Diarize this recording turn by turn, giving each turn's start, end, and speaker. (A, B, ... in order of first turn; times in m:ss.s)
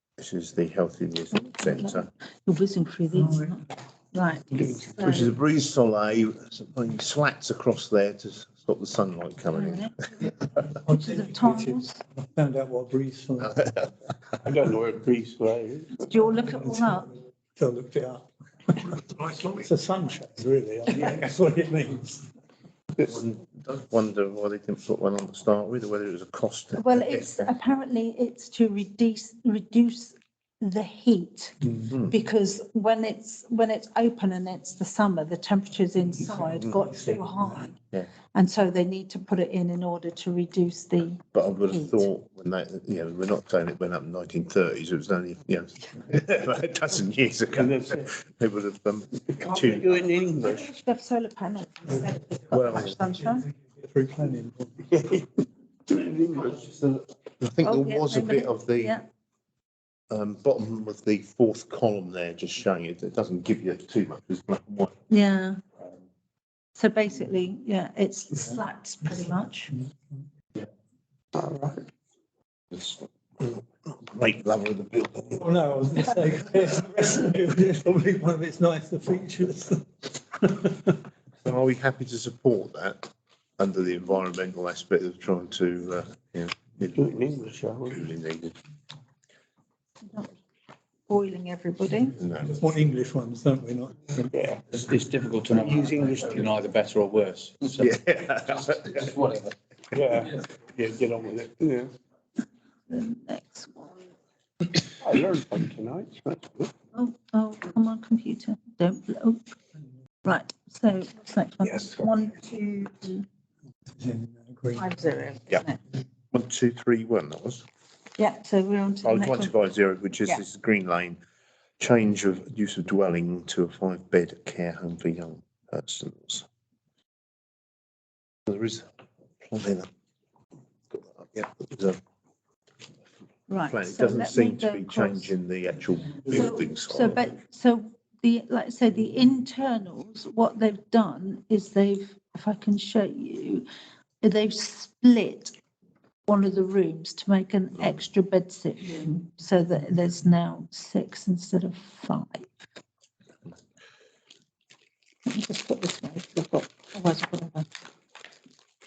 0:00.2-0:02.1 A
0:01.6-0:05.3 B
0:05.0-0:10.3 A
0:09.5-0:09.9 B
0:10.7-0:11.8 C
0:10.8-0:12.0 B
0:12.3-0:13.5 C
0:13.4-0:14.0 A
0:14.4-0:16.0 D
0:15.9-0:17.1 B
0:17.6-0:22.3 C
0:23.0-0:27.5 A
0:26.7-0:37.8 B
0:38.3-0:42.1 B
0:41.3-0:50.0 A
0:47.5-0:48.0 D
0:49.4-0:50.7 D
0:50.4-0:53.5 B
0:52.5-0:52.9 A
0:53.8-0:54.8 C
0:54.9-0:56.6 D
0:56.5-0:59.0 A
0:57.6-0:59.0 B
1:00.1-1:04.9 A
1:05.1-1:05.6 B
1:06.8-1:09.8 B
1:11.3-1:11.9 D
1:12.7-1:15.4 A
1:15.3-1:21.0 C
1:21.4-1:27.2 A
1:26.9-1:28.0 D
1:27.8-1:28.6 A
1:30.0-1:30.4 B
1:31.1-1:32.2 B
1:32.2-1:32.5 A
1:32.4-1:34.3 C
1:34.3-1:34.8 D
1:34.7-1:37.9 E
1:35.5-1:36.4 D
1:37.6-1:39.4 A
1:39.0-1:39.5 E
1:39.9-1:41.9 D
1:42.9-1:44.1 B
1:45.0-1:46.7 D
1:46.9-1:49.5 B
1:50.2-1:53.2 B
1:51.7-1:52.0 D
1:53.9-1:54.9 C
1:54.7-1:55.8 B
1:56.3-1:57.6 A
1:58.2-1:59.5 B
1:59.0-2:01.2 A
2:01.8-2:06.4 A
2:08.5-2:08.8 A
2:09.4-2:09.9 A
2:10.9-2:12.0 A
2:13.5-2:15.3 B
2:13.6-2:17.3 A
2:16.3-2:23.7 B
2:24.2-2:25.6 B
2:26.2-2:32.5 B
2:35.2-2:37.7 B